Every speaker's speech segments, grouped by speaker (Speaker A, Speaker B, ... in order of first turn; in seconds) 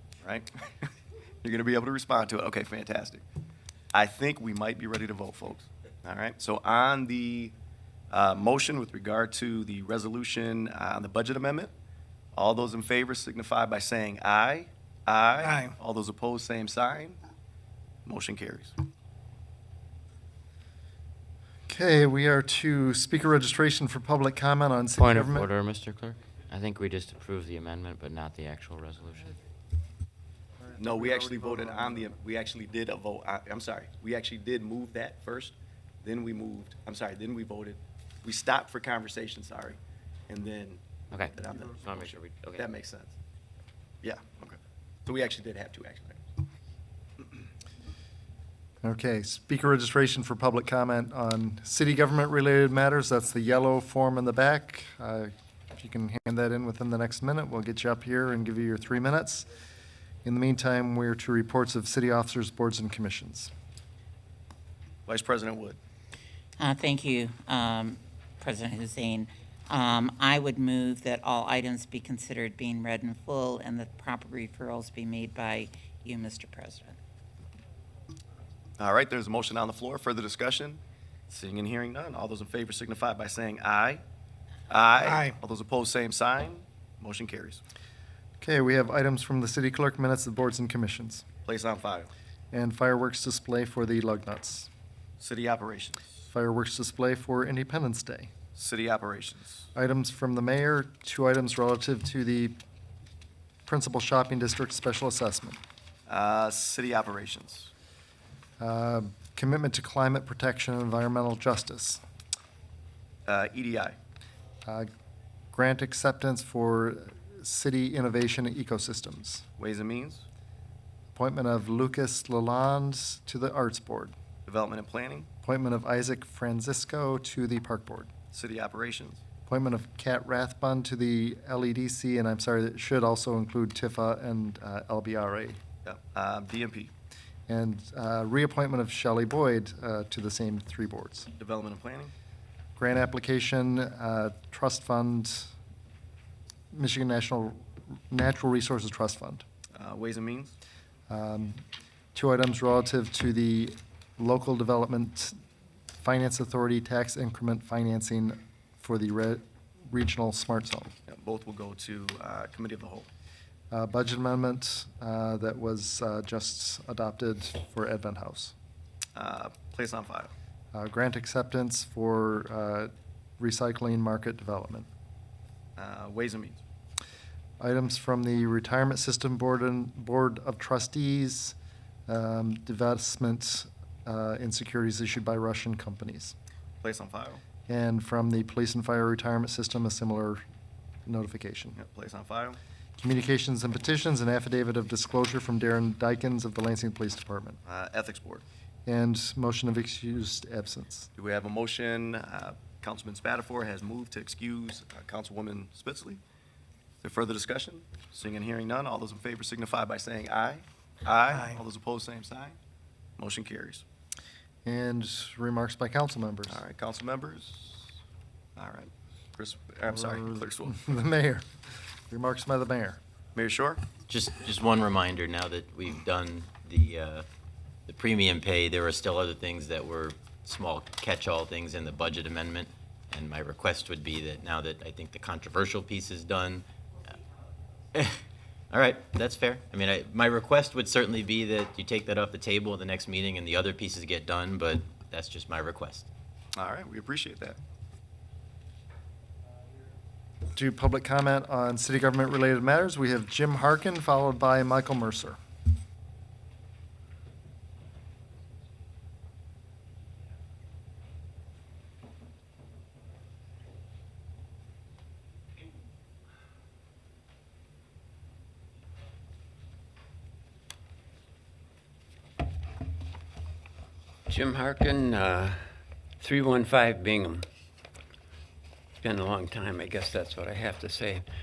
Speaker A: 0.2-0.5, 1.4-3.2, 3.9-7.5, 8.1-11.7, 12.3-17.2, 18.1-18.7, 30.8-39.8, 40.3-43.1, 44.0-46.2, 65.1-65.8, 78.8-84.0, 84.7-87.6, 91.4-92.1, 95.2-96.1, 98.5-99.7, 106.1-107.7, 113.2-114.0, 119.6-120.2, 124.5-125.3, 128.3-129.2, 135.8-136.9, 141.4-142.1, 149.7-150.5, 161.1-163.1, 169.2-170.3, 175.8-176.6, 186.8-187.4, 191.8-192.6, 197.6-198.4, 201.2-206.2, 207.0-212.6, 213.2-213.8, 216.5-217.9, 218.6-220.8, 223.3-223.8, 246.5-247.6
Speaker B: 21.7-25.5, 30.8-31.9, 48.8-59.5, 60.2-63.5, 88.4-91.2, 92.5-94.7, 96.2-98.3, 99.7-102.5, 103.7-105.6, 108.6-112.0, 115.5-119.4, 121.1-124.1, 125.4-128.1, 129.5-135.6, 137.5-141.3, 142.8-145.5, 146.7-149.4, 151.1-151.6, 152.1-155.3, 156.0-160.9, 163.7-168.5, 170.7-174.9, 177.6-181.5, 182.1-186.3, 187.7-190.4, 191.1-191.8, 193.0-197.6, 198.8-201.1, 214.6-216.6, 219.9-221.4, 222.1-223.0, 250.5-255.4
Speaker C: 25.0-29.4, 41.1-42.7
Speaker D: 66.6-77.0
Speaker E: 224.1-227.2, 227.9-236.6, 237.9-238.2, 238.7-246.1
Speaker F: 274.3-277.5, 279.0-281.2